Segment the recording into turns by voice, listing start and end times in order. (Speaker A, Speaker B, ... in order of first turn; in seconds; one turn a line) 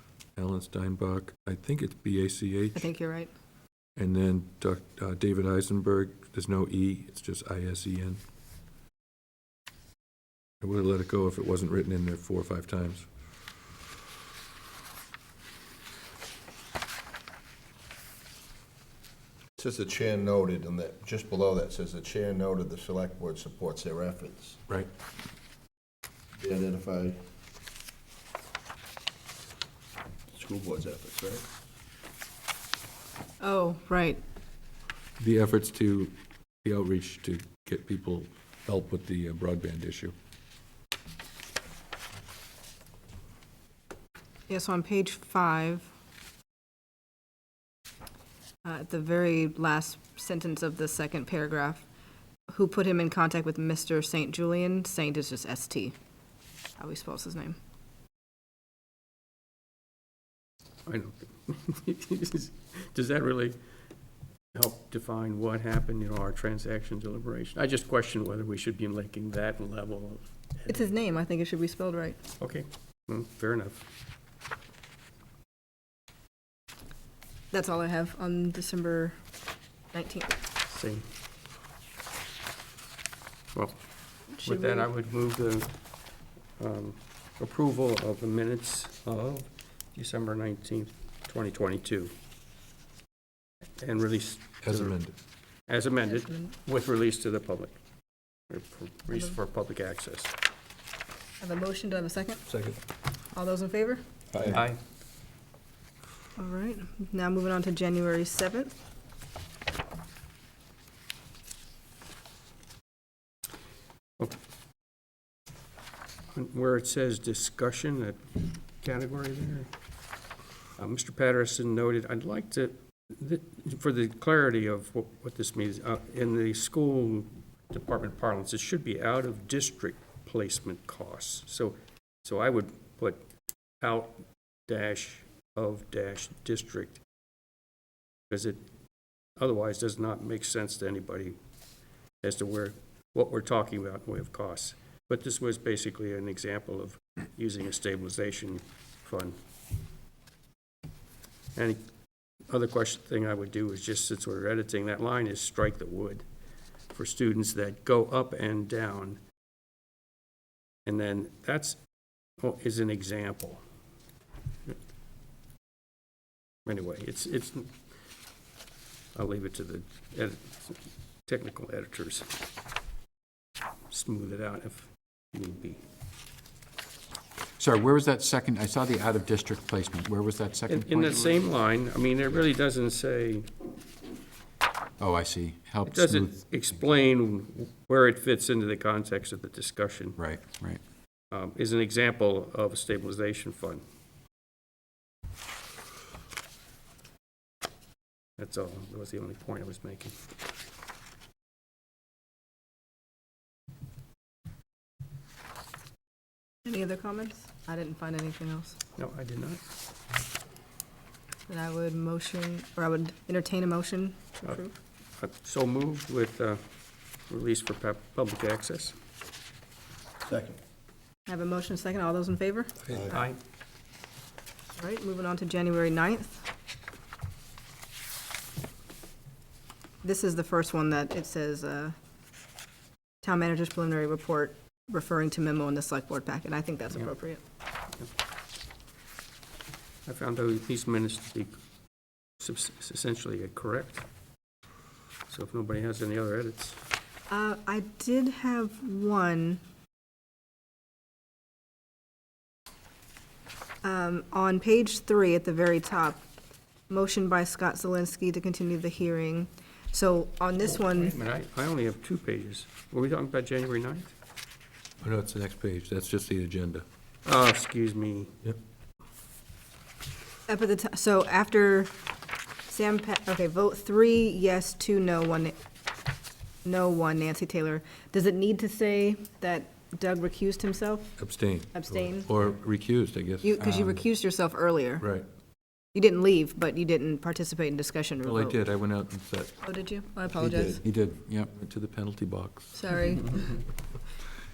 Speaker A: 0.4-2.9
Speaker B: 2.7-3.3
Speaker A: 4.0-8.2
Speaker A: 10.6-13.1
Speaker C: 19.6-24.6
Speaker C: 26.4-27.2
Speaker C: 30.3-31.4
Speaker B: 33.4-34.2
Speaker A: 35.2-40.1
Speaker B: 44.5-45.9
Speaker B: 48.6-51.9
Speaker B: 52.5-55.9
Speaker B: 56.8-57.6
Speaker D: 60.9-63.6
Speaker D: 64.5-70.9
Speaker B: 70.7-72.2
Speaker D: 72.4-73.8
Speaker B: 77.5-79.2
Speaker B: 79.9-80.4
Speaker D: 80.7-81.0
Speaker B: 84.4-84.9
Speaker D: 84.4-85.7
Speaker D: 86.6-92.1
Speaker D: 93.8-95.0
Speaker A: 94.6-95.1
Speaker D: 95.7-97.8
Speaker B: 96.0-96.5
Speaker D: 98.5-100.3
Speaker B: 101.4-102.4
Speaker A: 102.5-102.8
Speaker B: 103.3-104.0
Speaker A: 104.3-104.6
Speaker D: 104.5-104.8
Speaker B: 106.4-108.7
Speaker D: 116.3-119.7
Speaker D: 120.8-133.2
Speaker D: 133.8-137.0
Speaker D: 138.3-138.6
Speaker D: 139.4-141.3
Speaker D: 142.2-149.4
Speaker D: 151.6-151.8
Speaker D: 152.5-156.2
Speaker D: 156.9-159.2
Speaker D: 160.9-161.8
Speaker D: 162.4-163.6
Speaker D: 166.7-167.7
Speaker D: 169.2-172.3
Speaker D: 173.9-175.8
Speaker E: 177.6-181.4
Speaker D: 180.7-183.5
Speaker E: 185.0-186.8
Speaker D: 185.8-190.2
Speaker E: 190.2-190.8
Speaker D: 191.3-193.8
Speaker D: 198.4-200.2
Speaker B: 206.7-208.8
Speaker D: 209.0-209.6
Speaker B: 211.5-214.7
Speaker D: 215.2-216.6
Speaker D: 217.3-219.0
Speaker C: 220.2-220.6
Speaker B: 221.3-223.2
Speaker D: 222.8-223.4
Speaker C: 222.9-223.1
Speaker B: 224.8-226.4
Speaker B: 230.0-231.9
Speaker B: 233.2-237.4
Speaker D: 240.1-241.5
Speaker D: 242.4-244.1
Speaker D: 245.3-246.8
Speaker B: 247.3-249.6
Speaker B: 253.8-256.2
Speaker B: 256.9-261.1
Speaker D: 260.7-264.1
Speaker A: 265.0-266.9
Speaker D: 267.2-268.3
Speaker B: 270.5-271.9
Speaker B: 272.7-275.6
Speaker B: 276.6-281.2
Speaker A: 281.2-284.1
Speaker B: 281.7-282.3
Speaker B: 283.4-285.1
Speaker A: 285.0-285.3
Speaker B: 285.9-288.6
Speaker A: 288.2-289.6
Speaker B: 289.6-290.8
Speaker C: 290.3-290.8
Speaker E: 290.9-291.5
Speaker A: 290.9-293.2
Speaker B: 292.7-293.6